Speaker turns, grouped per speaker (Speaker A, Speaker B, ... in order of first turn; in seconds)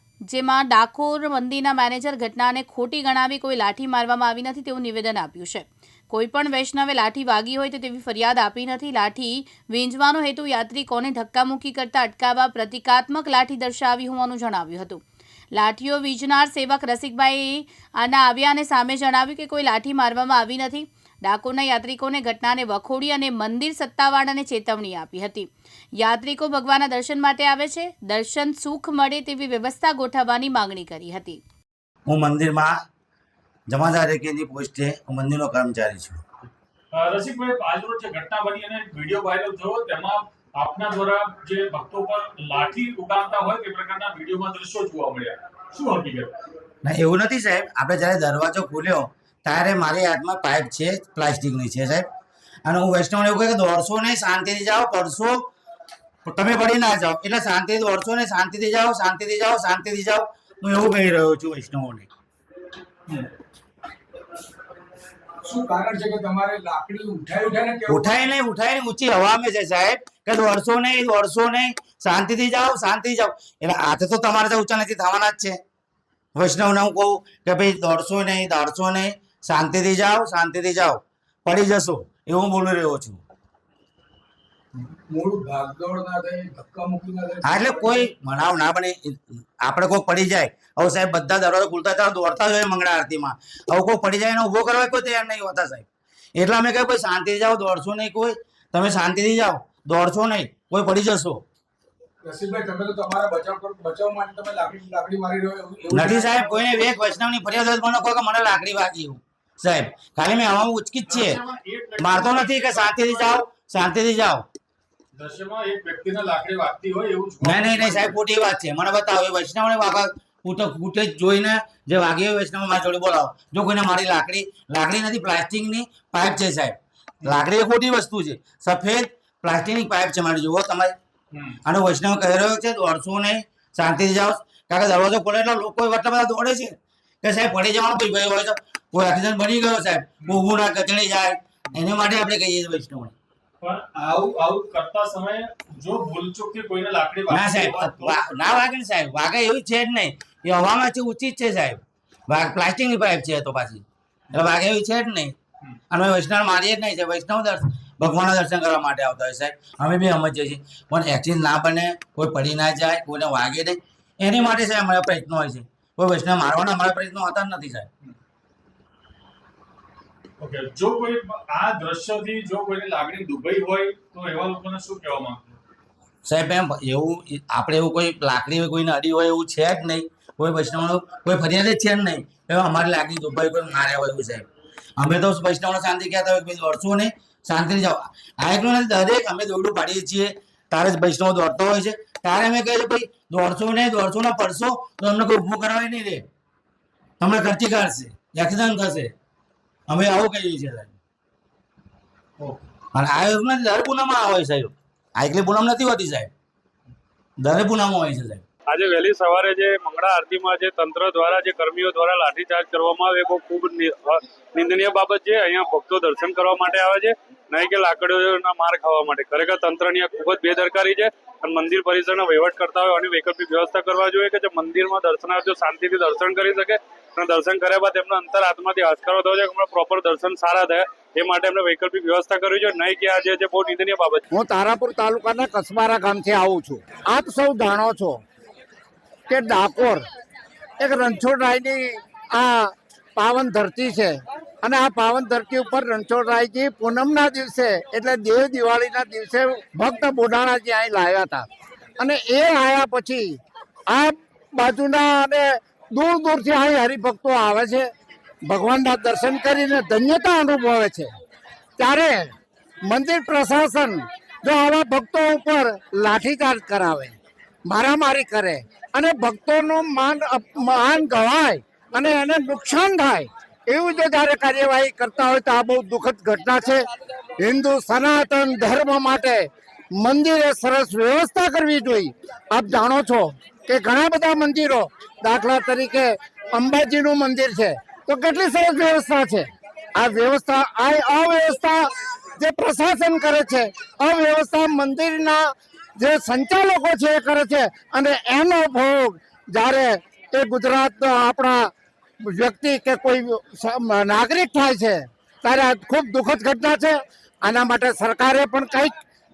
Speaker A: 0.3-15.0, 15.6-31.4
Speaker B: 32.1-32.8, 33.7-36.2, 46.8-52.1, 52.6-55.5, 56.2-62.1, 67.9-75.6, 76.3-83.2, 87.4-101.4, 105.9-111.4, 112.0-114.5, 117.4-131.0, 131.6-143.2, 147.3-155.3, 155.9-167.9, 176.2-184.5, 185.0-196.2, 197.2-199.1, 199.9-200.9, 202.9-206.3, 207.4-208.4
Speaker C: 36.9-46.3, 111.0-113.4, 115.2-118.2, 143.6-148.2, 170.4-175.6, 202.4-202.6
Speaker D: 65.4-68.2, 84.8-88.1, 102.2-107.2
Speaker E: 208.7-234.2
Speaker F: 234.3-238.2, 239.3-240.0, 240.8-251.5, 252.0-253.4, 253.9-257.9, 258.4-261.1, 261.8-262.3, 262.9-267.1, 267.6-276.8, 277.4-301.7, 302.2-308.9